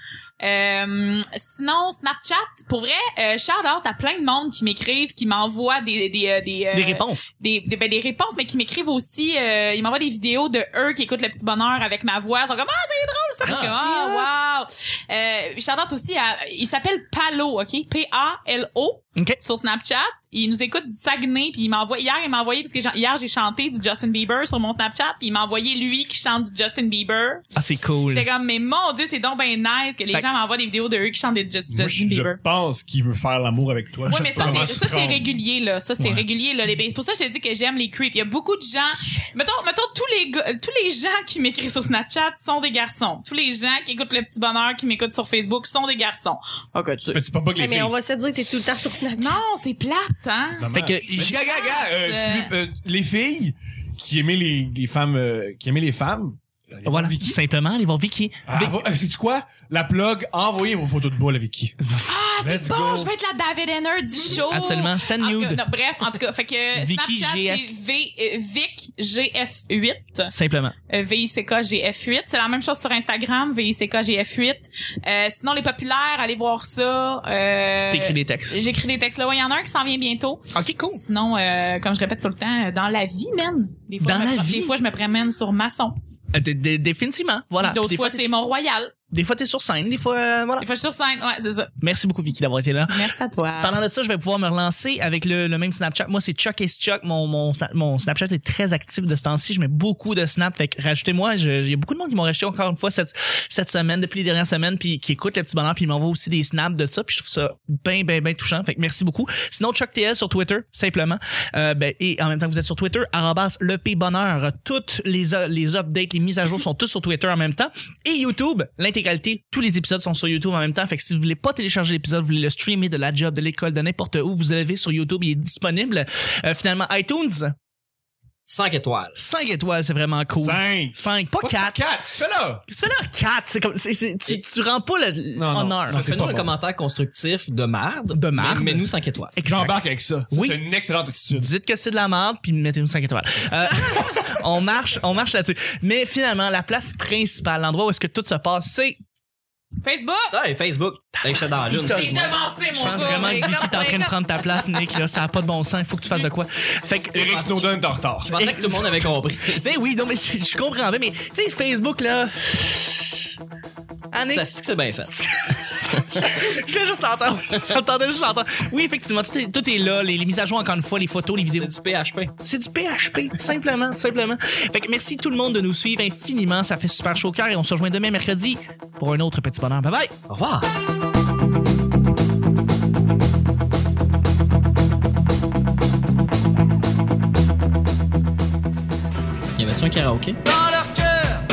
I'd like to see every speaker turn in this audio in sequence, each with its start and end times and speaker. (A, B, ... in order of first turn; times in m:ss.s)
0:00.4-0:32.4 A
0:06.7-0:07.3 B
0:13.4-0:14.3 B
0:27.6-0:28.3 B
0:31.7-0:35.3 C
0:34.1-0:47.2 A
0:34.1-0:34.7 B
0:36.0-0:36.2 B
0:47.1-0:47.9 C
0:47.6-0:49.4 D
0:49.2-0:52.5 A
0:50.6-0:57.4 C
0:50.7-0:51.4 B
0:56.8-0:58.8 B
0:58.5-1:01.8 C
1:01.8-1:02.1 B
1:02.1-1:10.3 A
1:02.4-1:03.1 C
1:04.3-1:05.6 B
1:06.8-1:07.7 B
1:10.3-1:10.8 B
1:10.9-1:26.0 A
1:17.9-1:18.6 B
1:20.5-1:21.0 B
1:24.0-1:24.7 B
1:26.3-1:28.3 B
1:27.6-1:28.9 A
1:29.1-1:30.7 B
1:30.6-1:31.7 A
1:31.8-2:07.6 B
1:32.9-1:33.8 A
2:08.5-2:09.2 E
2:09.2-2:11.8 B
2:10.4-2:12.6 C
2:12.7-2:16.1 B
2:15.4-2:16.6 C
2:15.9-2:19.4 E
2:18.1-2:19.8 B
2:19.4-2:21.5 C
2:20.3-2:20.6 B
2:21.4-2:29.0 B
2:29.8-2:30.4 A
2:30.3-2:32.4 E
2:31.7-2:33.9 A
2:32.7-2:37.4 B
2:33.0-2:34.1 D
2:37.1-2:38.4 C
2:37.3-2:37.6 E
2:38.2-2:39.6 E
2:38.3-2:43.4 B
2:44.1-2:44.5 B
2:44.3-2:45.2 E
2:45.1-2:51.7 B
2:51.5-2:52.3 E
2:52.4-3:00.1 B
3:00.3-3:00.7 E
3:09.6-3:10.4 E